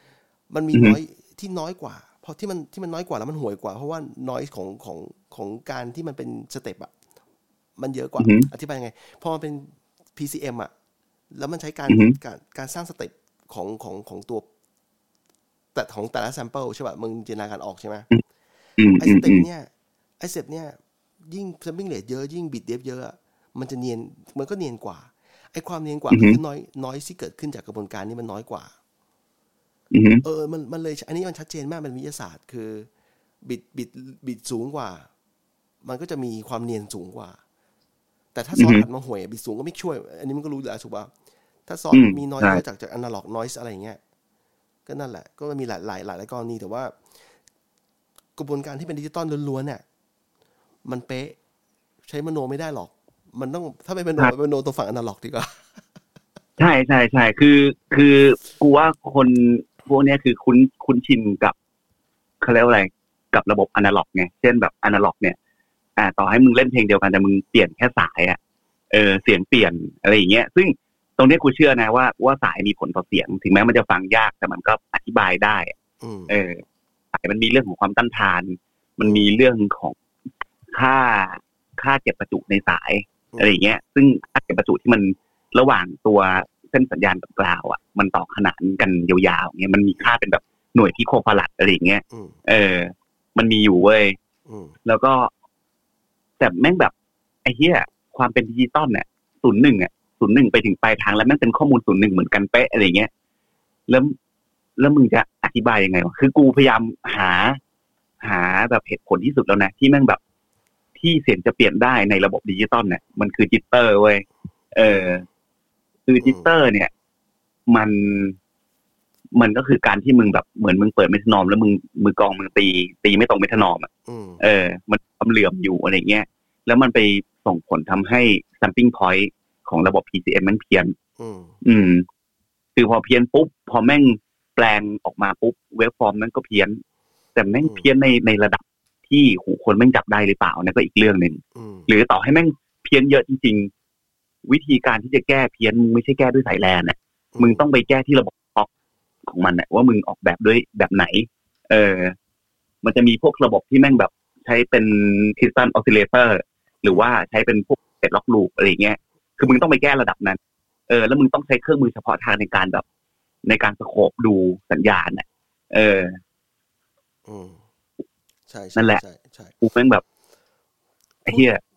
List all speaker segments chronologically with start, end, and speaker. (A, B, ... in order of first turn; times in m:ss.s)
0:00.5-0:06.9 A
0:00.7-0:01.0 B
0:07.8-0:10.7 A
0:08.2-0:08.5 B
0:11.3-0:14.5 A
0:11.9-0:12.2 B
0:15.8-0:18.1 A
0:18.8-0:19.5 B
0:19.0-0:20.8 A
0:21.3-0:28.7 A
0:26.1-0:26.4 B
0:29.9-0:30.2 B
0:30.2-0:32.9 A
0:33.4-0:35.1 A
0:35.8-0:37.4 A
0:38.3-0:41.1 A
0:38.5-0:38.8 B
0:41.7-0:44.0 A
0:41.9-0:42.6 B
0:44.9-0:46.9 A
0:48.4-0:49.8 A
0:50.8-0:51.4 A
0:52.1-0:55.7 A
0:56.6-1:01.6 B
1:02.4-1:05.4 B
1:06.0-1:08.4 B
1:08.9-1:15.7 B
1:16.0-1:16.4 A
1:16.3-1:16.6 B
1:17.2-1:20.0 B
1:19.0-1:19.3 A
1:20.7-1:34.2 B
1:23.3-1:23.6 A
1:32.1-1:32.4 A
1:34.5-1:34.8 A
1:34.8-1:35.3 B
1:36.4-1:36.9 B
1:37.4-1:43.1 B
1:43.9-1:44.2 B
1:44.8-1:47.6 B
1:48.2-1:50.2 B
1:51.0-1:55.2 B
1:54.8-1:55.2 A
1:56.1-1:56.9 B
1:56.2-1:56.5 A
1:57.7-1:58.4 B
1:59.4-2:03.9 B
2:04.1-2:04.4 A
2:04.4-2:10.9 B
2:11.2-2:11.6 A
2:11.6-2:12.1 B
2:12.8-2:16.8 B
2:17.4-2:23.7 B
2:17.6-2:17.9 A
2:21.6-2:21.9 A
2:24.5-2:28.7 B
2:27.4-2:27.6 A
2:29.3-2:32.2 B
2:32.8-2:40.4 B
2:40.9-2:42.8 B
2:43.5-2:46.2 B
2:47.3-2:47.6 A
2:48.5-2:49.6 A
2:48.8-2:49.0 B
2:49.6-2:50.0 B
2:51.3-2:51.6 B